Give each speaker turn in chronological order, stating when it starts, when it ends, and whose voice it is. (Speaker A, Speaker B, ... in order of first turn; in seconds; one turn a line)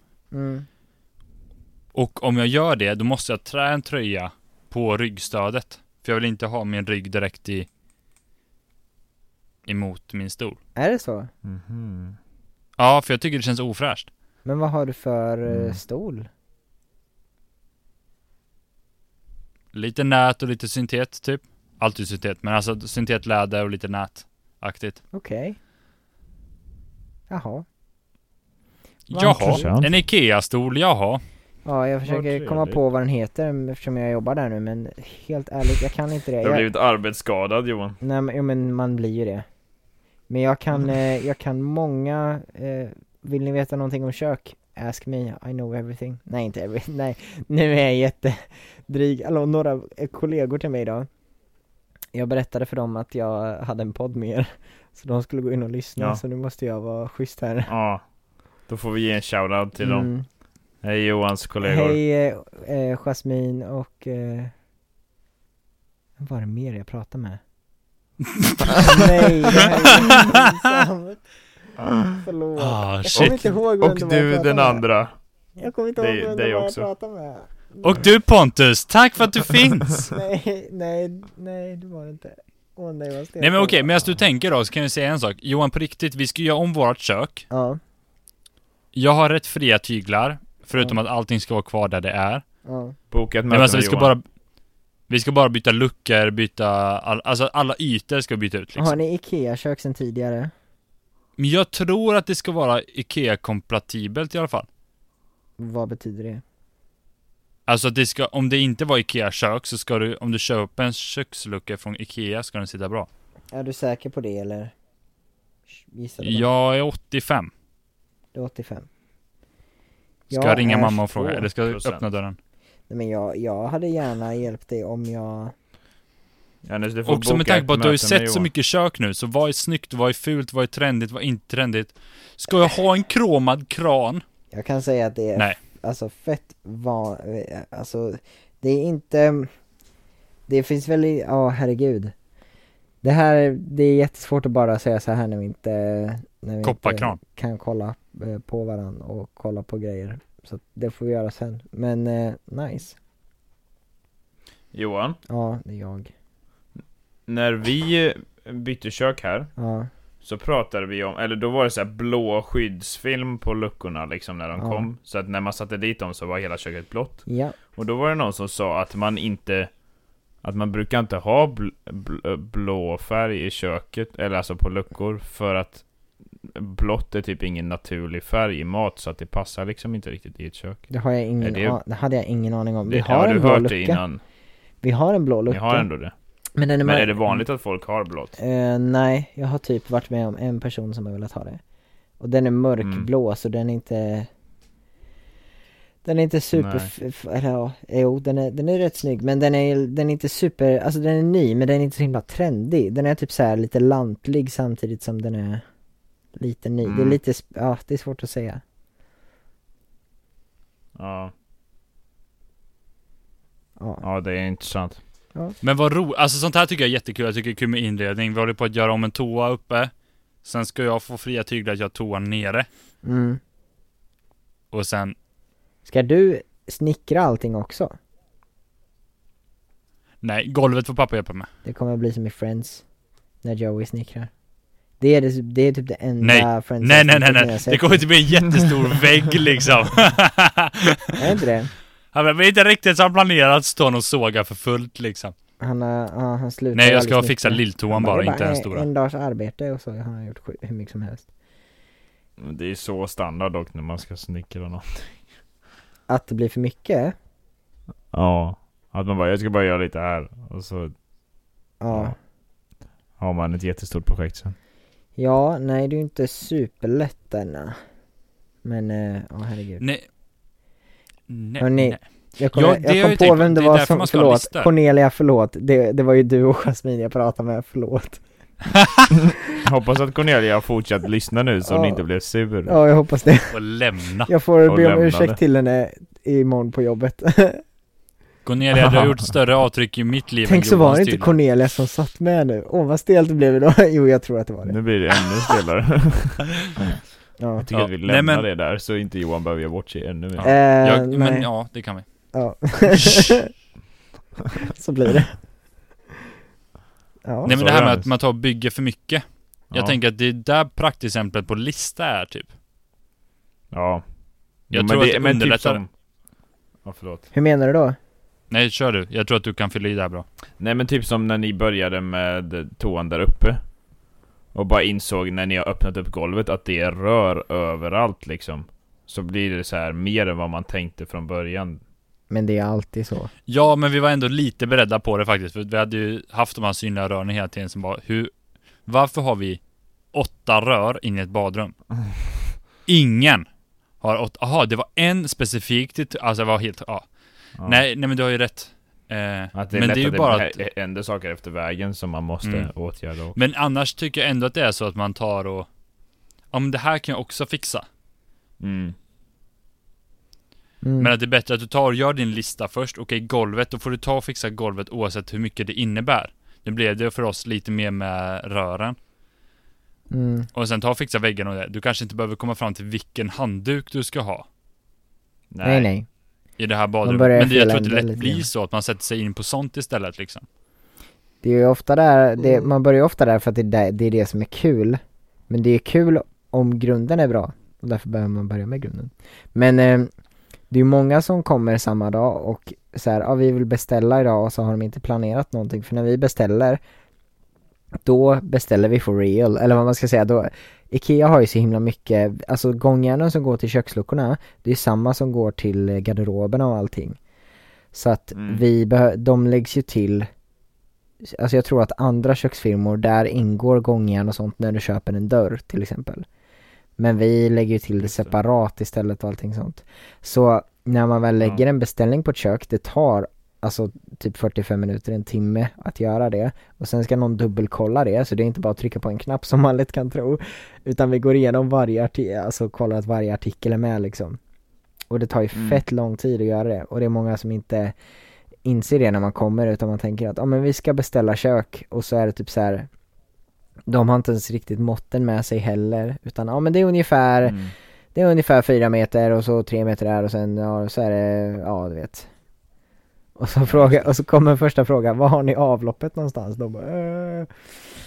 Speaker A: 0.3-0.7
Speaker B: 1.9-7.7
Speaker B: 9.7-10.6
Speaker A: 10.8-11.3
Speaker C: 11.4-12.2
Speaker B: 12.8-14.1
Speaker A: 14.4-16.3
Speaker C: 15.5-15.8
Speaker B: 19.7-25.0
Speaker A: 25.1-25.6
Speaker A: 27.3-27.6
Speaker B: 29.1-31.2
Speaker A: 29.1-29.7
Speaker C: 29.4-29.9
Speaker A: 31.6-36.7
Speaker C: 32.0-32.8
Speaker C: 36.4-38.0
Speaker A: 38.0-39.5
Speaker A: 40.3-51.1
Speaker A: 52.1-57.7
Speaker C: 57.7-58.0
Speaker C: 58.7-60.1
Speaker A: 59.8-60.3
Speaker C: 60.8-62.0
Speaker A: 61.6-64.5
Speaker A: 66.2-67.4
Speaker B: 68.4-68.7
Speaker A: 68.8-71.2
Speaker B: 70.0-70.3
Speaker A: 72.2-74.8
Speaker B: 72.6-73.5
Speaker C: 73.1-75.2
Speaker A: 75.6-78.0
Speaker C: 76.0-76.9
Speaker B: 77.8-80.1
Speaker A: 80.1-83.9
Speaker B: 83.4-87.5
Speaker A: 87.5-87.8
Speaker B: 88.9-92.4
Speaker A: 92.7-93.0
Speaker C: 93.1-94.1
Speaker B: 93.5-94.2
Speaker B: 95.1-99.0
Speaker A: 98.8-100.5
Speaker B: 101.4-104.7
Speaker A: 105.6-106.4
Speaker B: 107.7-113.1
Speaker A: 113.5-114.7
Speaker A: 115.7-116.5
Speaker B: 116.2-117.5
Speaker A: 118.3-118.9
Speaker B: 120.3-122.4
Speaker A: 120.3-121.5
Speaker C: 121.6-122.0
Speaker A: 122.9-125.5
Speaker C: 126.7-128.5
Speaker B: 127.1-134.2
Speaker A: 134.5-139.5
Speaker A: 140.5-142.1
Speaker A: 143.0-153.0
Speaker B: 146.6-147.2
Speaker C: 154.7-155.2
Speaker A: 155.3-156.1
Speaker C: 157.3-159.5
Speaker A: 159.6-159.9
Speaker C: 160.2-169.7
Speaker A: 164.6-164.9
Speaker A: 167.3-167.6
Speaker C: 170.4-175.8
Speaker C: 176.4-180.9
Speaker A: 180.9-184.0
Speaker C: 181.4-181.8
Speaker C: 182.9-184.2
Speaker A: 184.8-185.9
Speaker C: 185.5-186.1
Speaker A: 186.6-187.4
Speaker C: 186.8-188.4
Speaker A: 188.4-191.6
Speaker A: 192.2-194.3
Speaker C: 192.8-193.1
Speaker A: 196.0-205.6
Speaker C: 196.6-196.9
Speaker A: 206.4-208.6
Speaker C: 206.8-207.2
Speaker C: 211.0-211.3
Speaker A: 213.8-214.0
Speaker C: 214.0-215.0
Speaker B: 215.6-219.9
Speaker B: 220.4-222.7
Speaker A: 223.0-223.4
Speaker B: 224.7-225.2
Speaker A: 225.9-227.9
Speaker B: 230.2-231.5
Speaker A: 231.7-232.8
Speaker A: 233.4-234.3
Speaker A: 235.0-238.1
Speaker B: 236.2-241.2
Speaker A: 241.2-241.7
Speaker B: 242.1-245.3
Speaker A: 245.6-251.3
Speaker B: 246.8-248.9
Speaker C: 252.4-255.2
Speaker A: 256.1-257.1
Speaker C: 258.1-260.9
Speaker A: 261.8-262.2
Speaker C: 261.9-262.2
Speaker C: 263.2-264.6
Speaker A: 265.2-267.8
Speaker A: 268.6-269.8
Speaker B: 269.8-270.1
Speaker B: 271.3-274.7
Speaker A: 271.6-278.2
Speaker C: 279.6-282.8
Speaker A: 281.7-282.0
Speaker A: 282.7-283.6
Speaker B: 283.5-284.3
Speaker A: 284.3-287.6
Speaker C: 284.6-285.4
Speaker B: 288.4-291.4
Speaker A: 290.4-294.8
Speaker C: 294.7-297.0
Speaker A: 297.4-297.7
Speaker C: 297.6-300.5
Speaker B: 297.7-298.5
Speaker B: 300.4-302.1
Speaker A: 300.4-301.5
Speaker A: 302.3-303.5
Speaker A: 304.7-305.4
Speaker A: 307.2-307.5
Speaker C: 307.5-308.1
Speaker B: 307.5-312.5
Speaker C: 309.7-310.0
Speaker C: 313.7-314.0
Speaker C: 314.7-315.9
Speaker B: 314.7-315.8
Speaker C: 316.8-317.3
Speaker A: 317.3-318.0
Speaker B: 318.5-320.2
Speaker C: 320.6-323.6
Speaker C: 324.5-331.8
Speaker A: 332.3-333.3
Speaker B: 333.5-338.3
Speaker B: 338.9-339.6
Speaker B: 340.1-341.7
Speaker B: 342.9-343.5
Speaker B: 344.0-347.1
Speaker B: 347.6-350.6
Speaker C: 349.6-353.4
Speaker B: 352.4-352.7
Speaker B: 353.4-355.7
Speaker B: 356.5-357.9
Speaker C: 358.6-359.0
Speaker A: 360.8-361.1
Speaker B: 361.0-369.0
Speaker A: 370.1-370.5
Speaker B: 370.5-374.5
Speaker C: 375.5-375.9
Speaker A: 375.6-376.1
Speaker B: 376.6-380.4
Speaker A: 377.0-378.5
Speaker A: 381.4-390.1
Speaker A: 390.7-396.8
Speaker A: 398.1-407.2
Speaker A: 407.9-410.3
Speaker C: 408.4-408.6
Speaker A: 411.2-416.3
Speaker A: 417.0-434.4
Speaker C: 418.0-418.4
Speaker A: 435.1-437.9
Speaker C: 435.5-435.8
Speaker A: 438.6-442.9
Speaker A: 443.9-447.6
Speaker C: 447.4-447.7
Speaker A: 448.1-452.3
Speaker A: 453.4-457.5
Speaker C: 453.7-454.0